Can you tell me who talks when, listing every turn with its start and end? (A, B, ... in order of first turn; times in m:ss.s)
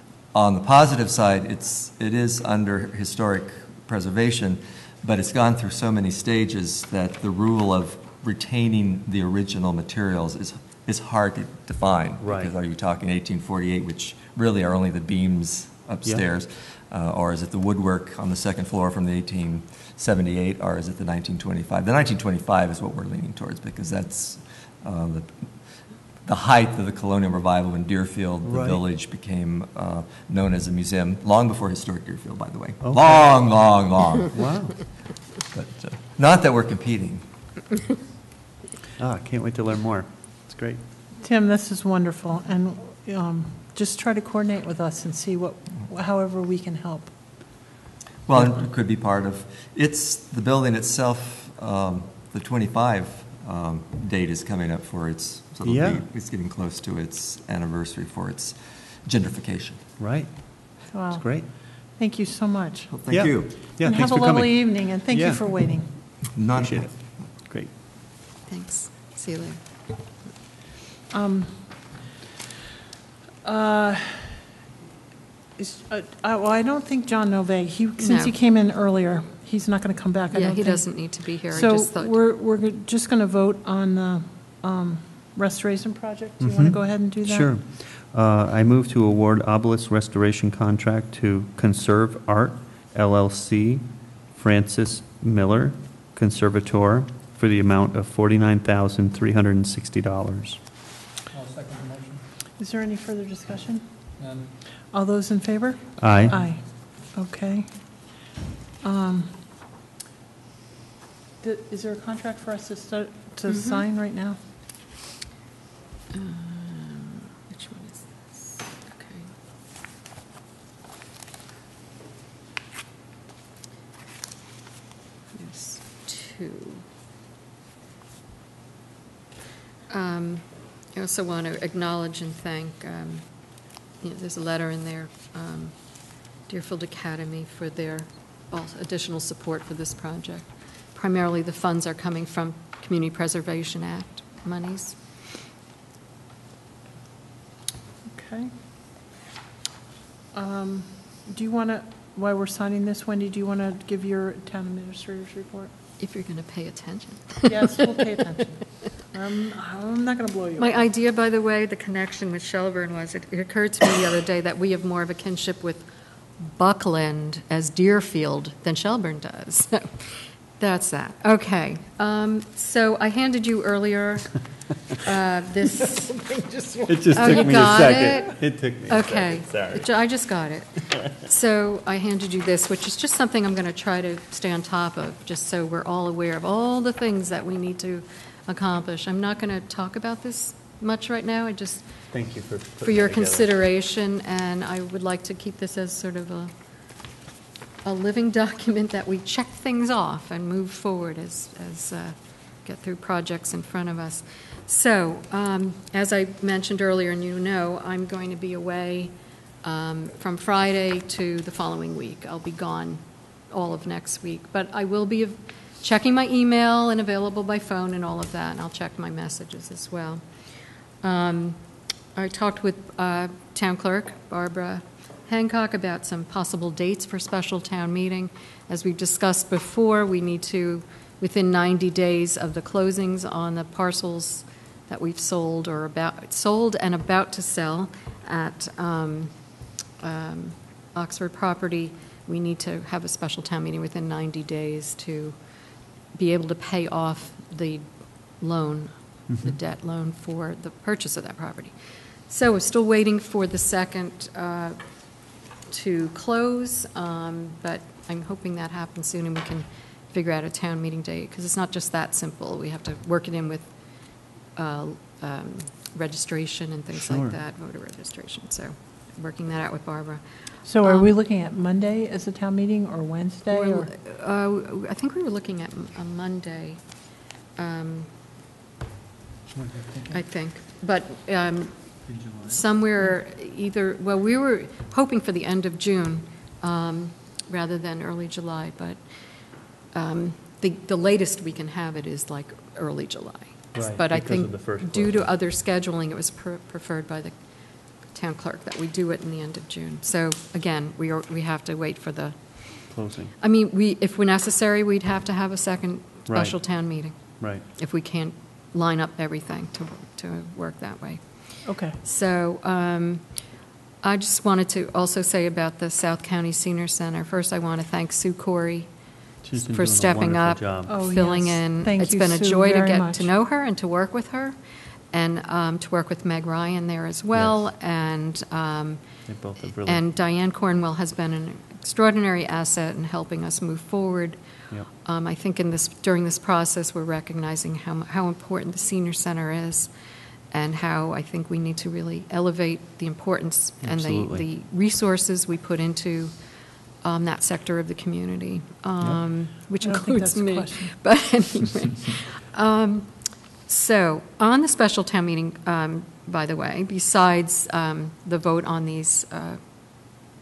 0:00.3-0:37.3 A
0:12.2-0:12.5 B
0:28.4-0:28.8 B
0:32.8-0:35.2 B
0:39.0-0:40.8 B
0:41.2-0:47.1 C
0:48.3-1:00.0 A
0:55.6-0:56.0 B
1:00.0-1:01.5 B
1:00.9-1:02.9 C
1:02.9-1:03.8 A
1:03.1-1:07.7 B
1:03.4-1:05.9 C
1:06.3-1:07.3 A
1:08.5-1:09.8 D
1:11.1-1:11.8 C
1:13.4-1:14.4 C
1:15.6-1:27.5 C
1:18.0-1:18.3 D
1:20.3-1:22.2 D
1:26.4-1:40.6 B
1:41.3-1:42.2 E
1:42.6-1:43.9 C
1:44.2-1:44.6 E
1:44.7-1:48.2 C
1:46.0-1:46.4 B
1:48.8-1:49.4 C
1:51.4-1:54.4 C
1:53.5-1:53.8 D
1:56.1-1:59.3 D
2:05.3-2:06.8 D
2:09.9-2:25.0 D
2:28.1-2:28.5 C
2:30.3-2:35.7 C
2:36.0-2:37.7 D
2:37.4-2:40.9 C
2:40.6-2:45.9 D
2:46.4-2:56.2 D
2:56.4-2:57.3 C
2:56.9-2:59.9 B
2:57.1-3:12.1 D
3:12.1-3:13.5 B
3:12.8-3:16.5 D
3:17.8-3:41.6 D
3:42.1-4:05.6 D
4:06.1-4:31.1 D
4:09.3-4:09.6 B
4:27.0-4:27.4 B
4:30.6-4:33.9 C
4:33.5-4:38.1 D
4:39.5-4:40.2 E
4:40.1-5:24.6 D
4:42.1-4:42.6 E
4:53.7-4:55.3 B
5:02.9-5:03.3 B
5:06.3-5:07.6 B
5:11.6-5:12.0 C
5:19.4-5:21.0 B
5:20.9-5:23.3 C
5:25.1-5:29.3 D
5:27.3-5:27.6 B
5:29.3-5:30.0 B
5:29.8-5:39.9 D
5:40.5-5:46.4 D
5:43.8-5:44.4 B
5:46.9-5:59.6 D
5:49.8-5:51.0 C